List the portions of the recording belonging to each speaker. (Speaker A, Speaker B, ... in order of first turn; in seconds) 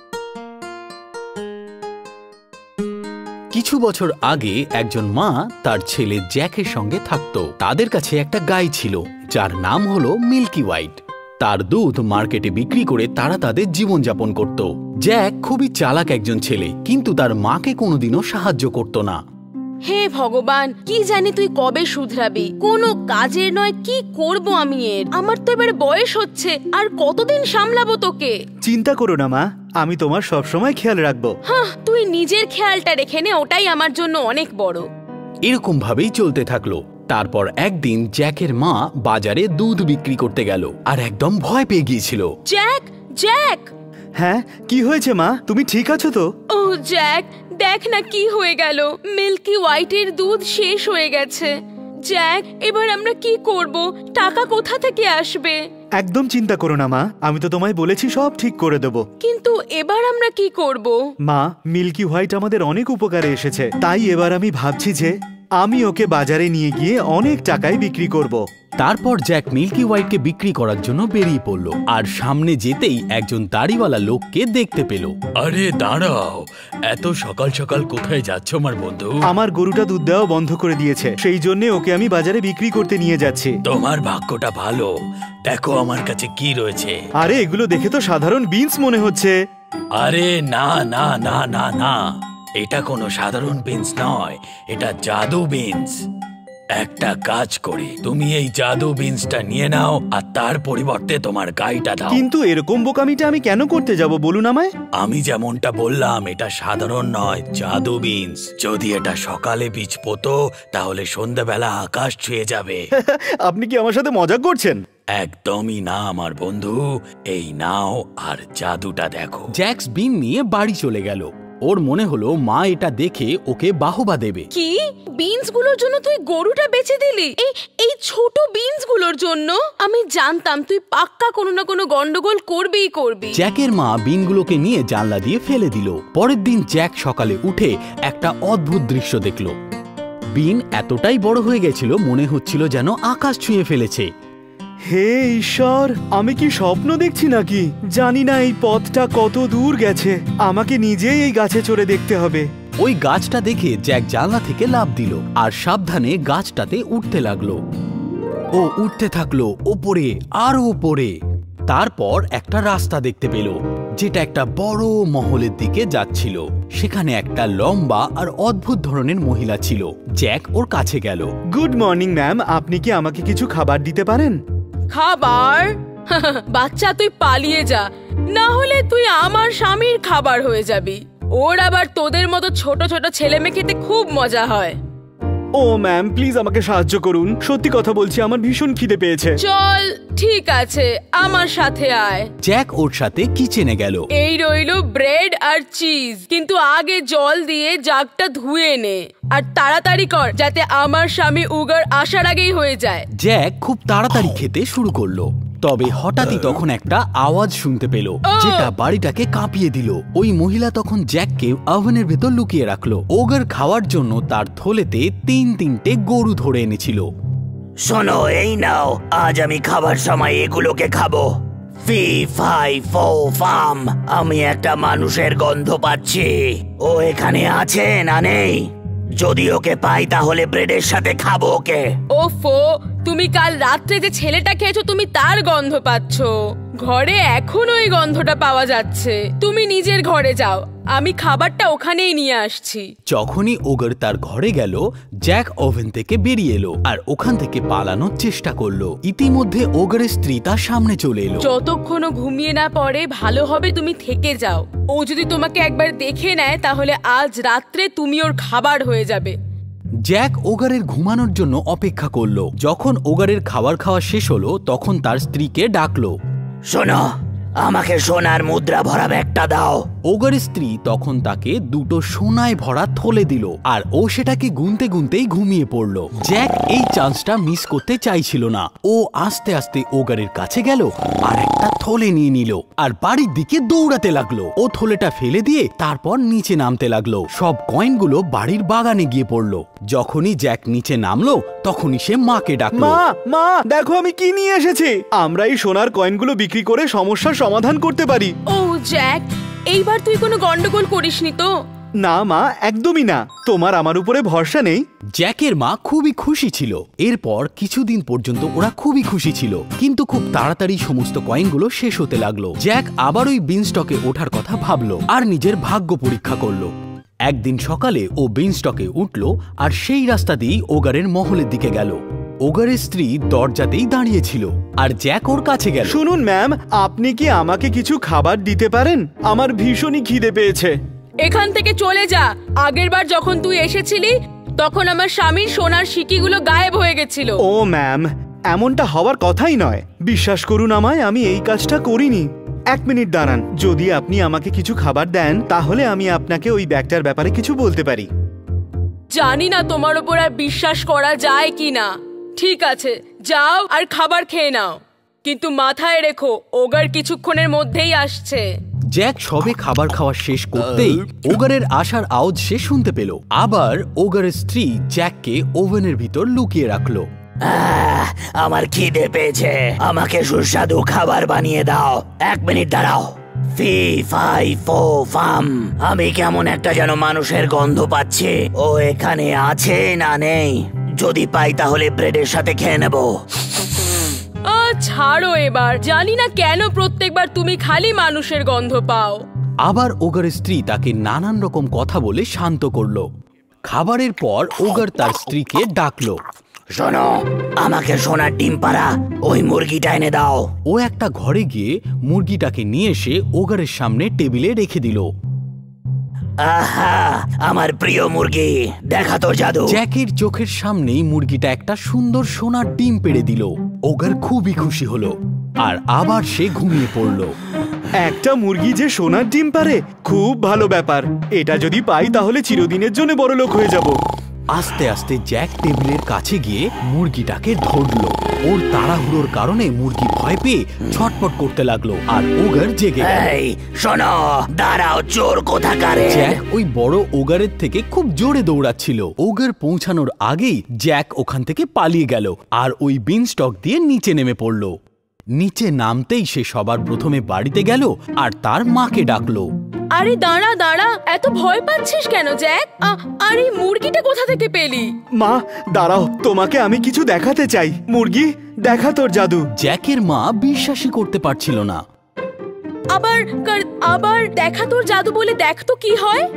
Speaker A: 3.5-19.2, 35.4-42.3, 68.8-79.1, 83.7-84.9, 85.5-86.9, 90.0-92.0, 92.6-95.9, 96.8-102.2, 105.0-112.8, 115.2-116.8, 117.3-124.5, 133.3-139.6, 140.3-144.1, 152.8-157.6, 158.5-161.2, 161.7-171.3, 192.4-194.1, 203.2-217.1, 243.1-251.5, 260.1-266.1, 270.1-293.0, 305.2-316.7, 317.3-326.0, 358.9-367.1, 389.6-393.1, 393.6-396.2, 400.7-405.1, 409.7-417.4, 424.5-433.3, 436.0-444.7, 445.3-449.5, 459.6-461.8
Speaker B: 19.9-28.4, 31.5-34.9, 42.5-43.7, 46.5-51.5, 52.1-55.6, 59.2-61.0, 124.5-133.4, 174.9-184.8, 189.4-192.3, 194.2-203.1, 208.3-208.7, 232.1-242.9, 251.4-259.4, 298.5-301.5, 331.2-337.4, 349.1-358.4, 384.5-389.2, 449.9-454.9, 462.9-466.3
Speaker C: 28.6-31.3, 44.2-46.3, 56.0-59.0, 61.3-68.4, 79.3-83.6, 87.2-89.3, 102.1-104.7, 113.0-114.8, 144.9-152.5, 171.5-174.4, 185.6-189.4, 292.8-298.4, 302.0-304.8, 325.9-330.8, 337.4-348.1, 417.9-424.0, 455.2-459.4
Speaker D: 217.8-221.3, 221.8-231.9, 266.7-267.1, 267.6-269.8, 367.4-383.1, 396.8-400.5, 406.4-409.8, 433.0-436.4